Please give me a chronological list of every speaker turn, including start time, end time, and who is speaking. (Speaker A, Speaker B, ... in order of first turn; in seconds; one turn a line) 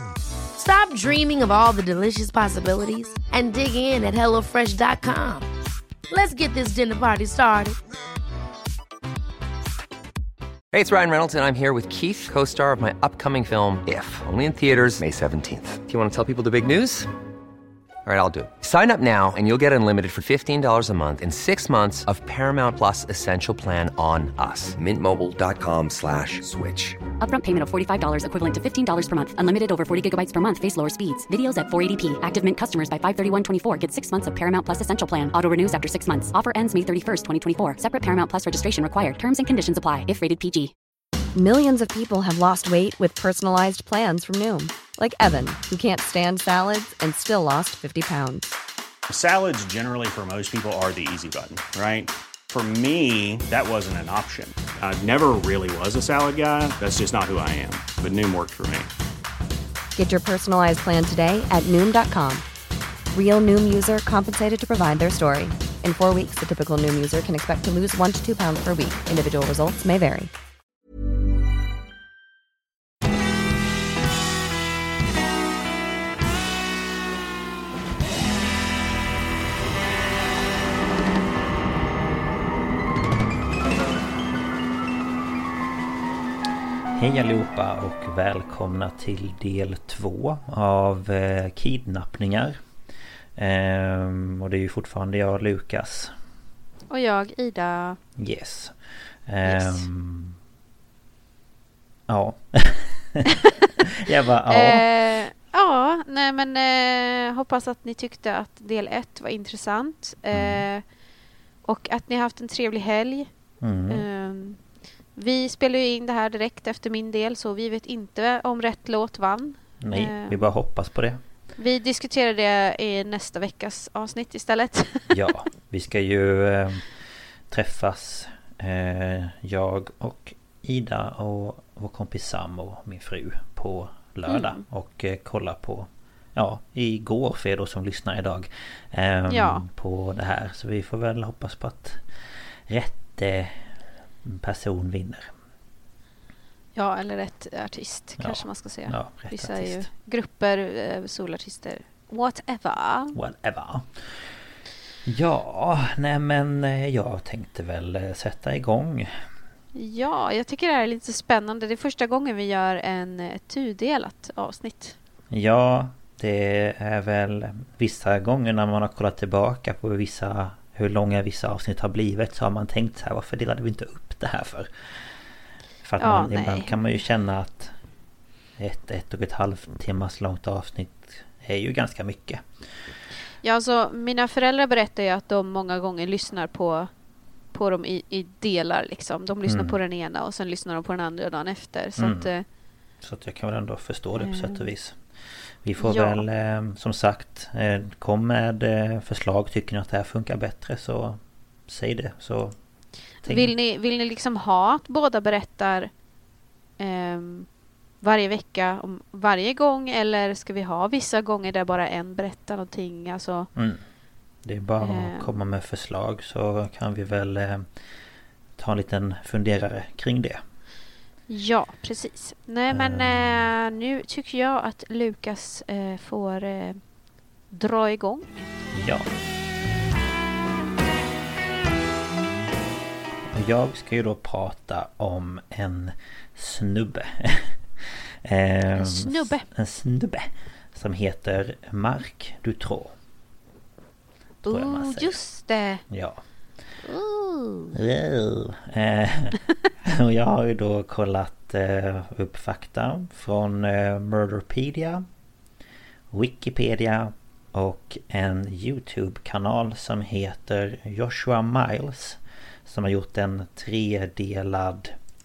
Speaker A: 0.6-5.5
Speaker A: 6.1-7.8
Speaker B: 10.7-17.1
Speaker B: 18.0-27.0
Speaker C: 27.2-40.7
Speaker D: 41.3-48.5
Speaker E: 49.1-58.9
Speaker D: 60.0-62.4
Speaker D: 63.1-70.3
Speaker F: 86.9-92.6
Speaker F: 93.3-96.1
Speaker G: 96.9-98.0
Speaker F: 98.2-98.8
Speaker F: 99.3-100.4
Speaker G: 99.5-99.8
Speaker F: 102.1-104.9
Speaker G: 104.5-110.8
Speaker F: 110.3-110.7
Speaker G: 111.6-113.3
Speaker F: 113.6-114.0
Speaker G: 113.9-114.6
Speaker G: 115.2-120.5
Speaker F: 119.8-121.2
Speaker G: 121.6-125.3
Speaker F: 125.1-126.8
Speaker F: 127.5-142.0
Speaker G: 134.3-134.6
Speaker G: 139.3-139.6
Speaker F: 142.7-143.6
Speaker F: 144.2-145.3
Speaker G: 146.7-153.2
Speaker F: 148.2-149.9
Speaker F: 153.1-153.9
Speaker F: 155.1-159.1
Speaker G: 159.7-164.9
Speaker F: 165.3-174.7
Speaker F: 175.8-177.7
Speaker G: 176.0-176.8
Speaker F: 178.6-182.4
Speaker G: 183.4-186.9
Speaker G: 187.5-192.4
Speaker F: 189.5-189.8
Speaker F: 192.0-192.3
Speaker F: 193.0-195.0
Speaker G: 194.2-194.7
Speaker F: 195.6-202.6
Speaker G: 195.8-196.2
Speaker F: 203.2-203.5
Speaker G: 203.2-205.9
Speaker G: 206.8-207.5
Speaker G: 208.0-213.5
Speaker F: 213.6-213.8
Speaker F: 214.4-217.7
Speaker G: 214.8-215.3
Speaker F: 218.6-220.4
Speaker G: 221.3-226.8
Speaker F: 222.7-223.5
Speaker G: 227.5-228.4
Speaker F: 228.7-229.1
Speaker F: 233.3-242.9
Speaker G: 238.7-239.4
Speaker F: 244.4-245.2
Speaker G: 244.4-245.8
Speaker F: 245.9-246.2
Speaker G: 246.8-247.8
Speaker F: 247.7-255.1
Speaker F: 256.1-264.9